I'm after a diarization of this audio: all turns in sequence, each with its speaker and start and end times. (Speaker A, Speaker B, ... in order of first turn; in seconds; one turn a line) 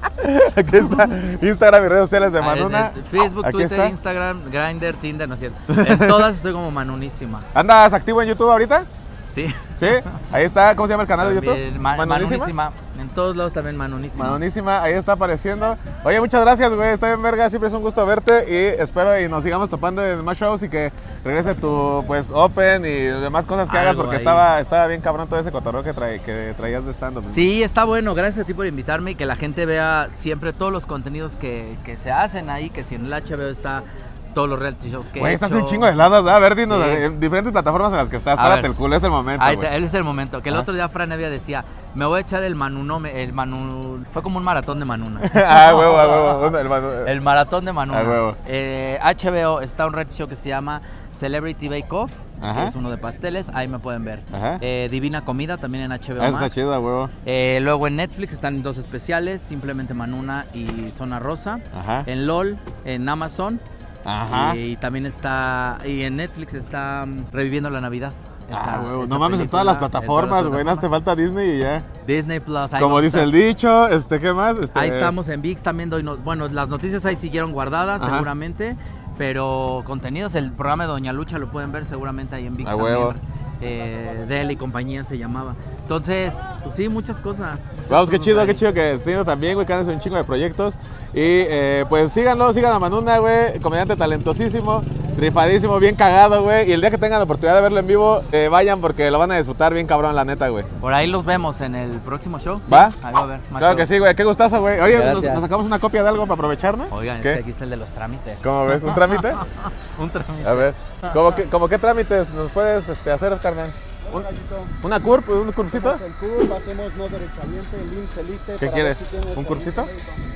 Speaker A: 0.2-3.9
Speaker B: 0.7-1.1
Speaker B: 2.4-7.5
Speaker A: 5.7-6.3
Speaker A: 7.5-8.9
Speaker B: 9.3-10.3
Speaker A: 9.8-12.5
Speaker B: 11.2-14.4
Speaker A: 14.2-27.5
Speaker B: 23.7-24.5
Speaker B: 27.3-36.0
Speaker A: 35.2-39.7
Speaker B: 36.6-37.0
Speaker B: 38.4-38.7
Speaker B: 39.4-56.6
Speaker A: 45.2-47.1
Speaker A: 47.9-48.4
Speaker A: 52.4-52.7
Speaker A: 54.3-54.6
Speaker A: 56.2-57.1
Speaker B: 57.2-63.6
Speaker A: 61.7-62.1
Speaker A: 64.0-64.6
Speaker B: 64.3-70.9
Speaker A: 68.5-71.8
Speaker B: 72.0-73.3
Speaker A: 72.8-75.1
Speaker B: 74.7-88.7
Speaker A: 78.0-78.3
Speaker A: 82.6-83.2
Speaker A: 87.9-100.7
Speaker B: 100.8-103.9
Speaker A: 102.7-103.0
Speaker A: 103.6-107.4
Speaker B: 104.9-105.5
Speaker B: 106.9-111.4
Speaker A: 108.4-109.4
Speaker A: 110.4-114.2
Speaker C: 114.1-114.8
Speaker A: 114.8-116.0
Speaker C: 115.7-120.2
Speaker A: 118.6-119.9